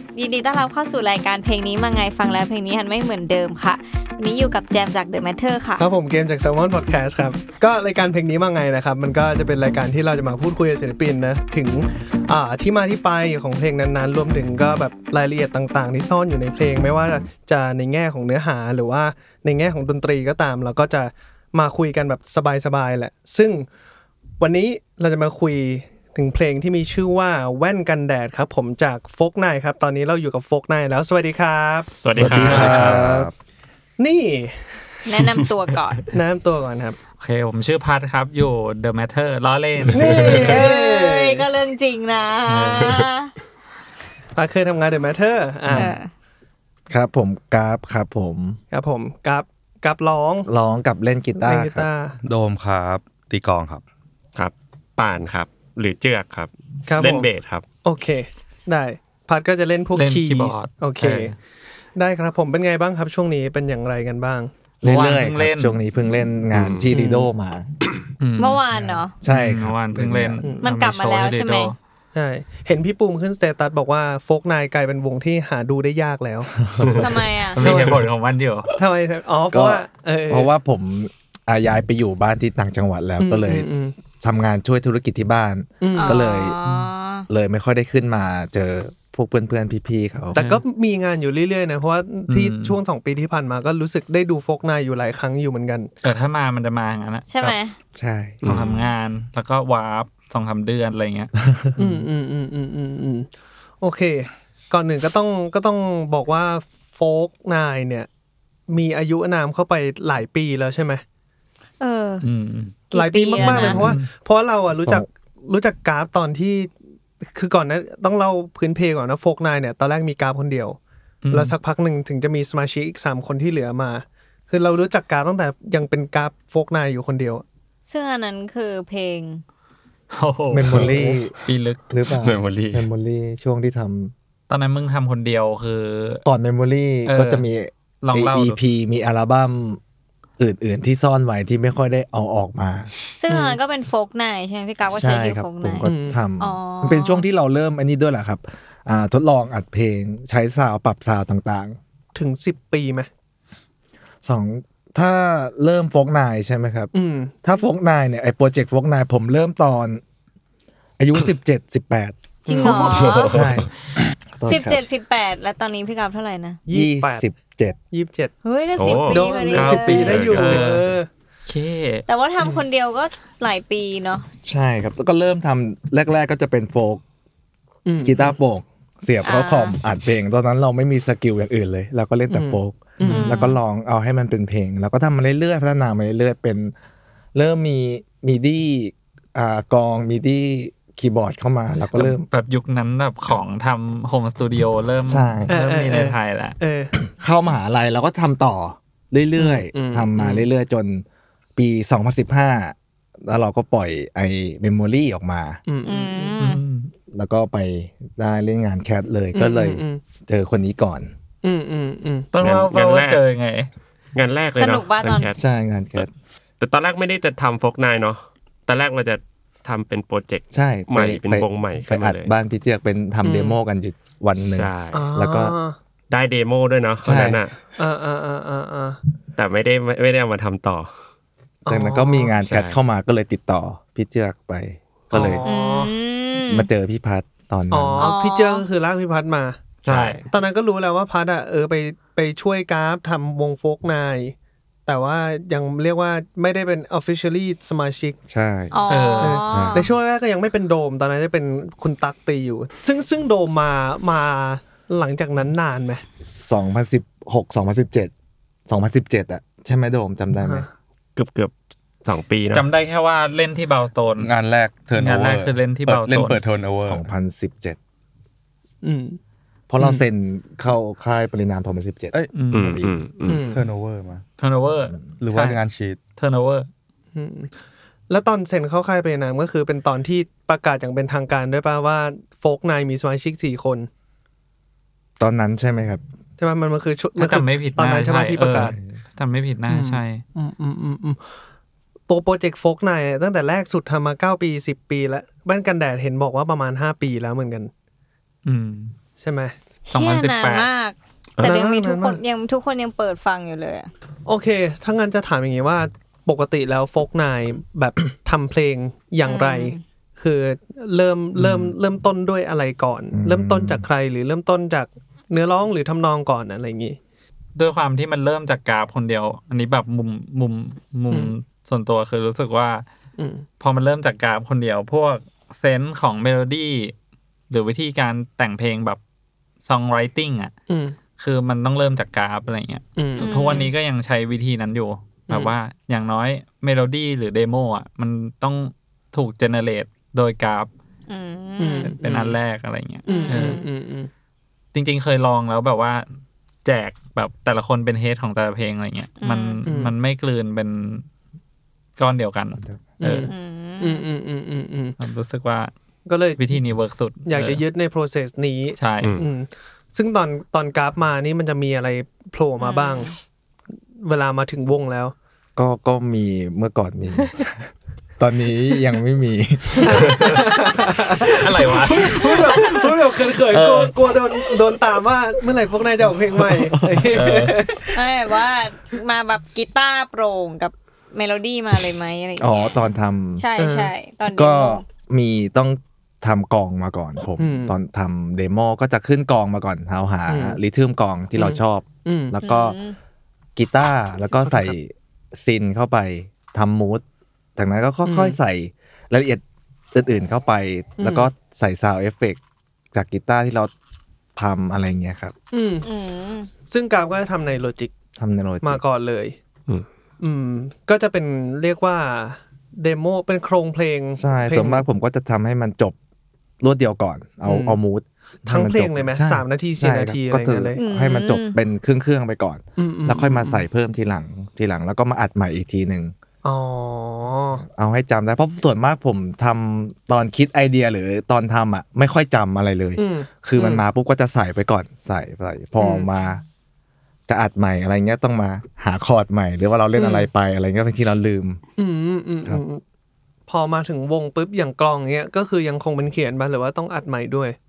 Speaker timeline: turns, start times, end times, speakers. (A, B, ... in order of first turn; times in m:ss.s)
0:00.1-0:05.9 A
0:05.8-0:23.7 B
0:24.4-0:32.0 B
0:32.0-0:33.0 C
0:32.2-0:33.3 D
0:32.2-0:32.8 E
0:32.2-0:33.3 F
0:32.5-0:33.2 B
0:34.0-0:35.2 B
0:35.1-0:36.1 A
0:36.1-0:37.0 B
0:37.2-0:40.2 E
0:39.9-0:41.5 B
0:40.0-0:43.3 A
0:42.5-0:43.1 E
0:44.4-0:46.0 B
0:45.7-0:45.9 D
0:45.8-0:46.1 A
0:46.9-0:48.6 D
0:48.7-0:50.5 B
0:50.5-0:51.9 D
0:51.4-0:52.2 B
0:52.2-0:53.8 F
0:54.4-0:57.7 C
0:56.9-0:57.3 B
0:57.8-1:01.4 B
0:59.9-1:01.3 E
1:02.0-1:04.5 B
1:04.8-1:07.7 D
1:04.8-1:05.8 E
1:06.5-1:06.9 C
1:06.9-1:07.3 B
1:08.2-1:08.6 E
1:08.4-1:09.1 A
1:08.7-1:10.5 D
1:09.3-1:11.8 E
1:10.6-1:11.7 A
1:12.1-1:16.5 B
1:16.6-1:17.2 D
1:16.8-1:17.2 C
1:17.0-1:17.6 A
1:17.6-1:18.7 E
1:17.6-1:18.0 B
1:18.8-1:20.5 B
1:19.5-1:26.6 D
1:23.2-1:24.0 B
1:25.8-1:26.2 B
1:26.0-1:27.3 A
1:27.3-1:30.4 D
1:30.3-1:35.9 B
1:30.4-1:30.6 E
1:32.3-1:32.8 E
1:36.0-1:37.6 E
1:37.3-1:37.8 A
1:38.0-1:38.4 D
1:38.4-1:38.7 C
1:38.5-1:41.3 E
1:38.5-1:38.9 A
1:41.4-1:42.0 D
1:41.8-1:43.3 B
1:43.8-1:48.1 B
1:48.7-1:51.0 B
1:51.8-1:52.3 A
1:52.2-1:52.8 E
1:52.9-1:53.9 A
1:52.9-1:56.7 B
1:53.4-1:54.1 E
1:54.7-1:55.1 D
1:57.2-2:00.8 B
2:01.2-2:01.6 E
2:01.3-2:07.4 B
2:07.9-2:09.4 A
2:10.1-2:11.8 E
2:10.5-2:11.3 D
2:11.9-2:14.1 D
2:12.2-2:12.8 C
2:14.5-2:16.2 E
2:16.2-2:19.8 D
2:17.1-2:17.4 E
2:18.0-2:18.6 E
2:20.4-2:22.9 D
2:23.2-2:25.9 A
2:23.3-2:23.6 B
2:24.9-2:31.8 D
2:25.8-2:26.2 B
2:26.4-2:27.2 A
2:32.2-2:33.1 B
2:34.2-2:36.9 D
2:36.9-2:37.4 B
2:37.4-2:40.0 D
2:41.0-2:42.2 D
2:42.5-2:43.5 A
2:42.5-2:43.1 B
2:42.7-2:43.7 C
2:43.2-2:43.7 D
2:44.4-2:44.9 D
2:44.4-2:46.6 A
2:46.7-2:47.3 B
2:46.7-2:47.8 D
2:47.9-2:51.1 B
2:48.4-2:50.3 A
2:48.8-2:50.9 C
2:49.4-2:50.9 E
2:51.5-2:52.1 E
2:52.1-2:54.2 A
2:54.4-2:57.0 D
2:57.9-2:58.4 B
2:58.0-3:06.7 D
2:59.2-2:59.8 A
3:02.3-3:03.4 B
3:03.0-3:03.6 A
3:07.4-3:12.3 D
3:12.0-3:16.6 E
3:15.1-3:15.5 D
3:15.5-3:17.0 B
3:17.0-3:21.0 D
3:19.4-3:20.5 B
3:21.6-3:25.6 D
3:25.7-3:26.4 B
3:25.8-3:26.6 A
3:26.4-3:26.9 E
3:27.1-3:31.1 D
3:29.3-3:30.0 B
3:31.4-3:32.3 B
3:32.3-3:33.7 E
3:32.4-3:33.2 C
3:34.2-3:35.4 C
3:34.6-3:35.3 A
3:35.4-3:36.1 D
3:36.6-3:42.3 C
3:40.5-3:45.6 D
3:43.2-3:43.5 B
3:44.4-3:45.1 C
3:44.9-3:45.8 B
3:46.1-3:47.6 C
3:47.0-3:47.4 D
3:47.8-3:49.0 B
3:49.4-3:50.9 C
3:51.7-3:52.3 B
3:51.7-3:55.4 D
3:52.4-3:52.8 C
3:55.1-3:55.9 B
3:55.4-3:56.7 A
3:56.4-3:58.1 D
3:57.7-3:59.6 B
3:58.0-3:58.7 A
3:59.8-4:00.2 C
3:59.8-4:00.2 E
4:00.3-4:04.3 B
4:04.9-4:08.2 B
4:08.3-4:08.7 D
4:08.7-4:09.9 A
4:08.9-4:09.4 E
4:09.2-4:16.0 B
4:09.5-4:09.9 D
4:16.2-4:18.1 D
4:18.7-4:20.7 D
4:21.2-4:21.5 C
4:22.0-4:22.7 C
4:22.5-4:24.3 E
4:24.2-4:27.0 F
4:25.0-4:26.6 E
4:26.8-4:27.8 D
4:28.8-4:29.2 B
4:29.7-4:32.9 D
4:32.3-4:32.8 E
4:32.5-4:33.4 C
4:33.3-4:33.6 B
4:33.4-4:34.2 F
4:34.4-4:35.6 E
4:35.2-4:36.0 F
4:36.2-4:36.7 E
4:37.2-4:37.5 B
4:38.1-4:43.9 B
4:45.2-4:46.0 D
4:46.4-4:48.8 B
4:47.2-4:50.2 E
4:48.4-4:49.0 D
4:49.7-4:51.2 B
4:52.1-4:57.7 B
4:58.5-4:59.0 E
4:59.2-4:59.6 B
4:59.9-5:00.7 E
4:59.9-5:03.9 A
5:01.4-5:02.2 B
5:04.3-5:17.0 B
5:09.2-5:09.8 A
5:13.1-5:13.9 D
5:17.6-5:22.8 E
5:23.2-5:23.5 B
5:23.6-5:27.0 E
5:27.5-5:29.0 E
5:29.6-5:30.5 E
5:30.7-5:31.0 B
5:31.2-5:40.7 E
5:33.0-5:33.3 B
5:33.2-5:33.7 A
5:41.1-5:41.9 A
5:41.6-5:42.4 B
5:41.8-5:43.6 E
5:43.1-5:43.6 A
5:43.1-5:44.1 B
5:44.7-5:46.1 E
5:46.6-5:51.1 E
5:49.2-5:49.6 A
5:49.7-5:49.9 B
5:52.0-5:53.3 E
5:53.0-5:55.0 B
5:53.3-5:54.1 A
5:55.0-5:55.7 E
5:56.1-5:56.5 B
5:56.4-5:57.6 E
5:57.3-6:03.1 B
5:58.8-5:59.2 E
6:02.6-6:03.1 A
6:04.0-6:05.1 B
6:05.6-6:10.4 D
6:09.8-6:18.1 B
6:11.2-6:12.8 E
6:13.5-6:13.9 E
6:16.4-6:17.2 D
6:17.1-6:17.6 E
6:17.9-6:22.5 A
6:22.4-6:23.5 D
6:23.4-6:24.9 A
6:23.6-6:23.9 B
6:24.3-6:32.8 D
6:27.4-6:27.7 B
6:30.3-6:30.6 B
6:31.4-6:32.4 B
6:32.4-6:33.0 A
6:33.6-6:37.0 D
6:34.4-6:34.8 B
6:37.6-6:42.4 D
6:38.1-6:38.4 B
6:41.0-6:41.3 B
6:42.9-6:43.7 D
6:44.4-6:45.4 D
6:45.5-6:45.9 B
6:45.8-6:46.5 A
6:46.6-6:47.9 B
6:48.2-6:48.8 D
6:48.6-6:49.4 B
6:50.2-6:54.8 B
6:54.2-6:56.0 D
6:56.6-7:06.1 D
6:57.5-6:57.8 B
6:58.5-7:00.8 B
7:00.8-7:01.6 A
7:02.8-7:03.6 B
7:06.4-7:07.6 B
7:07.7-7:16.4 D
7:13.0-7:13.8 B
7:15.8-7:16.1 B
7:17.3-7:21.6 D
7:20.0-7:20.3 B
7:21.8-7:22.8 B
7:23.5-7:27.6 B